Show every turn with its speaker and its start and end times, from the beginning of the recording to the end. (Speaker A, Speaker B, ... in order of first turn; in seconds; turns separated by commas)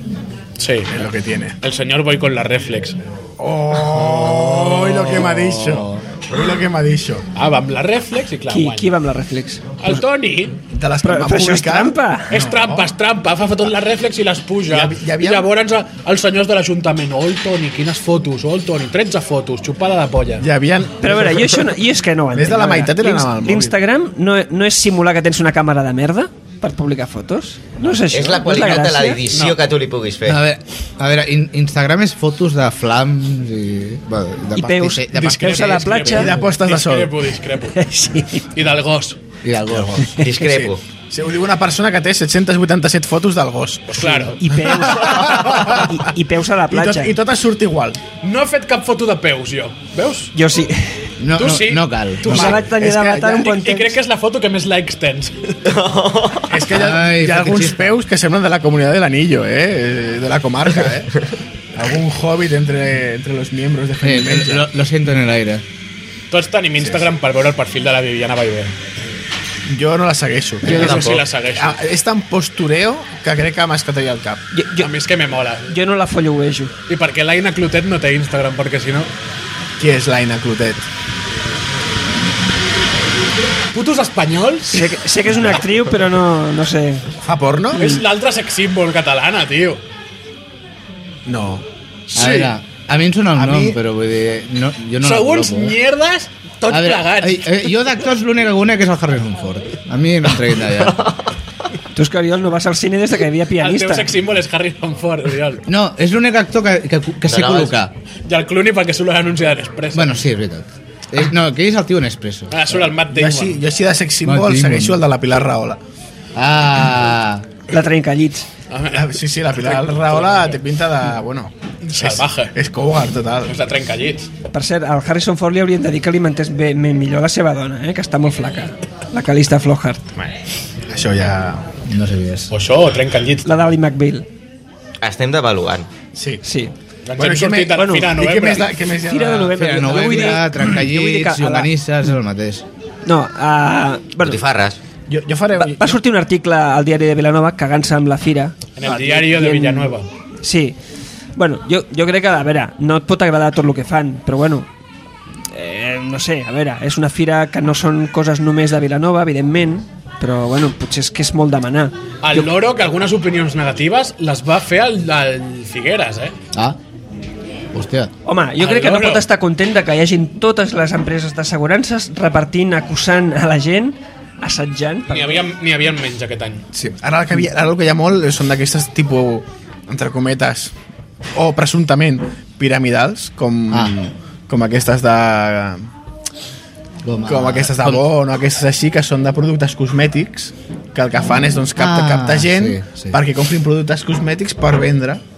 Speaker A: 0.6-0.9, Speaker B: 0.9-1.6, Speaker A: 1.6-3.0, Speaker B: 3.4-7.2, Speaker C: 3.8-6.0, Speaker A: 7.3-8.9, Speaker D: 8.5-10.0, Speaker A: 9.8-10.6, Speaker B: 10.7-12.9, Speaker D: 11.0-12.3, Speaker A: 12.3-20.4, Speaker B: 14.7-15.5, Speaker B: 20.4-21.7, Speaker D: 21.0-29.2, Speaker B: 22.3-23.8, Speaker E: 28.1-30.4, Speaker A: 29.3-29.6, Speaker C: 30.2-36.3, Speaker D: 34.5-36.3, Speaker A: 35.1-37.8, Speaker B: 36.1-37.1, Speaker D: 37.7-38.5, Speaker A: 38.5-39.2, Speaker C: 39.4-40.1, Speaker B: 39.7-46.0, Speaker E: 40.2-40.8, Speaker A: 43.9-44.4, Speaker D: 44.0-47.1, Speaker B: 46.7-48.0, Speaker A: 48.2-50.3, Speaker D: 50.3-51.0, Speaker C: 51.2-52.5, Speaker A: 51.4-52.6, Speaker B: 52.2-53.6, Speaker D: 52.3-54.0, Speaker A: 53.5-55.6, Speaker E: 55.6-56.5, Speaker B: 56.5-61.1, Speaker C: 56.7-58.0, Speaker B: 61.7-64.6, Speaker C: 64.0-65.6, Speaker A: 66.3-68.7, Speaker B: 66.8-67.0, Speaker B: 69.7-74.4, Speaker A: 70.6-71.8, Speaker E: 70.7-71.2, Speaker D: 74.5-74.9, Speaker A: 74.8-75.7, Speaker D: 75.7-76.7, Speaker A: 76.9-79.1, Speaker B: 79.8-80.9, Speaker A: 83.7-84.9, Speaker D: 84.7-87.1, Speaker B: 87.2-87.9, Speaker A: 87.7-89.8, Speaker D: 87.7-88.0, Speaker B: 91.2-91.6, Speaker C: 92.1-95.8, Speaker A: 92.1-92.5, Speaker B: 93.4-93.8, Speaker A: 95.0-97.7, Speaker C: 96.7-101.0, Speaker D: 101.9-104.1, Speaker A: 103.6-105.6, Speaker C: 105.7-107.9, Speaker E: 107.2-107.8, Speaker A: 108.2-110.2, Speaker C: 109.9-112.8, Speaker A: 112.5-113.6, Speaker B: 113.1-115.8, Speaker C: 114.2-115.0, Speaker C: 116.3-117.5, Speaker D: 117.7-118.5, Speaker A: 118.7-120.6, Speaker B: 118.9-123.6, Speaker A: 121.8-122.5, Speaker A: 123.5-124.3, Speaker D: 124.5-130.0, Speaker B: 130.9-131.7, Speaker C: 131.8-132.5, Speaker A: 132.5-133.6, Speaker D: 133.4-134.2, Speaker E: 135.0-135.9, Speaker B: 136.1-136.4, Speaker D: 136.4-136.7, Speaker A: 137.1-138.8, Speaker B: 137.2-140.2, Speaker D: 137.8-138.1, Speaker D: 139.0-141.7, Speaker C: 139.5-142.6, Speaker D: 143.1-144.4, Speaker E: 144.2-144.8, Speaker B: 145.1-146.0, Speaker D: 145.6-150.8, Speaker A: 148.8-150.1, Speaker D: 151.4-154.7, Speaker D: 155.5-162.5, Speaker A: 162.2-166.3, Speaker C: 166.5-166.8, Speaker C: 167.7-168.1, Speaker D: 168.2-175.5, Speaker A: 168.6-169.3, Speaker A: 175.1-176.6, Speaker B: 176.7-180.7, Speaker B: 181.3-185.9, Speaker C: 183.7-183.9, Speaker C: 187.0-188.0, Speaker B: 187.2-195.2, Speaker C: 191.8-193.2